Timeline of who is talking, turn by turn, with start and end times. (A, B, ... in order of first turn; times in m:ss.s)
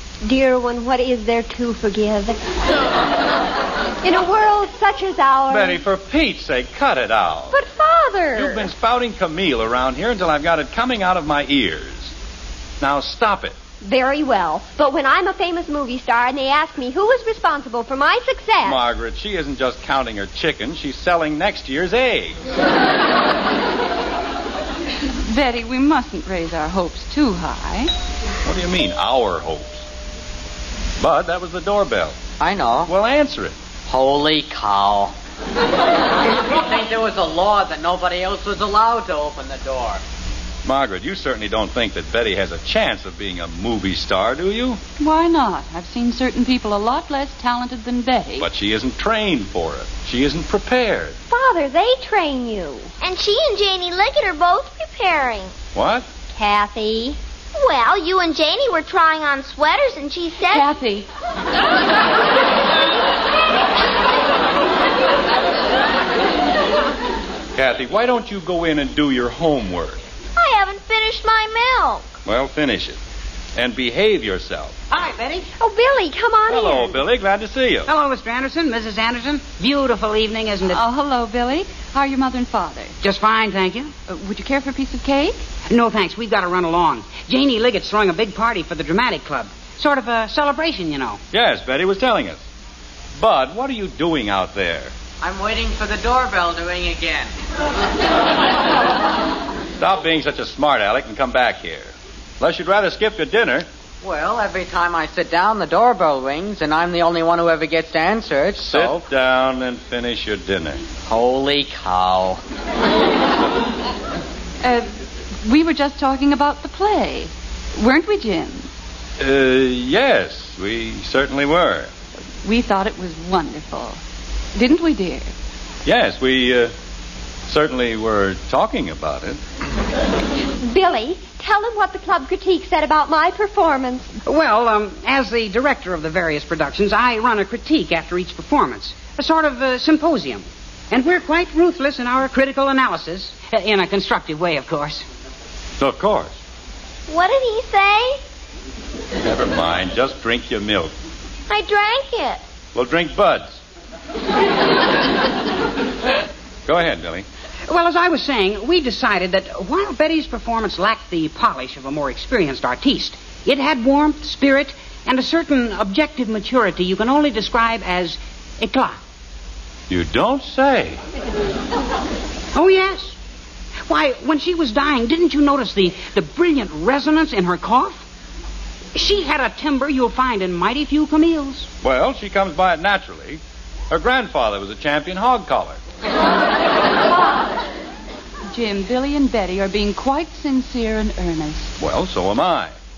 0:00.2-0:02.4 A
0:04.0-0:05.8 A
0:05.5-0:07.6 B
0:07.5-0:08.7 A
0:08.4-0:12.1 B
0:12.8-0:13.6 B
0:13.8-0:18.8 A
0:18.6-0:22.4 B
0:25.2-0:27.9 C
0:28.4-0:29.8 B
0:31.0-0:32.2 B
0:32.4-0:32.9 D
0:32.9-0:33.5 B
0:33.9-0:35.1 D
0:36.4-0:40.0 D
0:40.6-0:44.8 B
0:45.0-0:48.5 C
0:48.4-0:51.2 B
0:51.3-0:52.9 A
0:53.0-0:55.5 E
0:55.7-0:56.1 B
0:56.3-0:57.2 A
0:57.6-1:00.6 E
1:00.5-1:01.1 C
1:07.5-1:10.0 B
1:10.4-1:12.1 E
1:12.2-1:13.0 B
1:13.6-1:14.8 B
1:14.9-1:15.5 F
1:15.6-1:16.9 A
1:16.5-1:17.9 B
1:17.9-1:20.8 F
1:20.7-1:22.9 C
1:23.0-1:23.9 F
1:24.1-1:25.4 C
1:25.7-1:31.2 F
1:31.3-1:32.4 B
1:33.2-1:34.9 B
1:35.2-1:37.3 D
1:39.8-1:43.6 B
1:44.0-1:49.0 D
1:48.6-1:50.8 B
1:51.1-1:52.4 D
1:54.6-1:54.9 C
1:55.4-1:58.7 C
1:59.2-2:01.9 B
2:02.4-2:04.0 C
2:04.5-2:05.3 C
2:05.8-2:06.7 B
2:07.5-2:09.4 B
2:10.6-2:14.1 A
2:14.2-2:25.0 F
2:25.8-2:26.4 B
2:27.1-2:28.2 E
2:29.2-2:30.9 B
2:31.5-2:32.4 E
2:32.7-2:33.6 B
2:36.6-2:37.2 B
2:37.7-2:49.0 F
2:49.9-2:51.0 B
2:52.5-2:53.2 F
2:53.9-2:58.0 F
2:58.9-3:01.7 F
3:01.8-3:05.8 B
3:08.5-3:11.7 C
3:11.8-3:12.7 B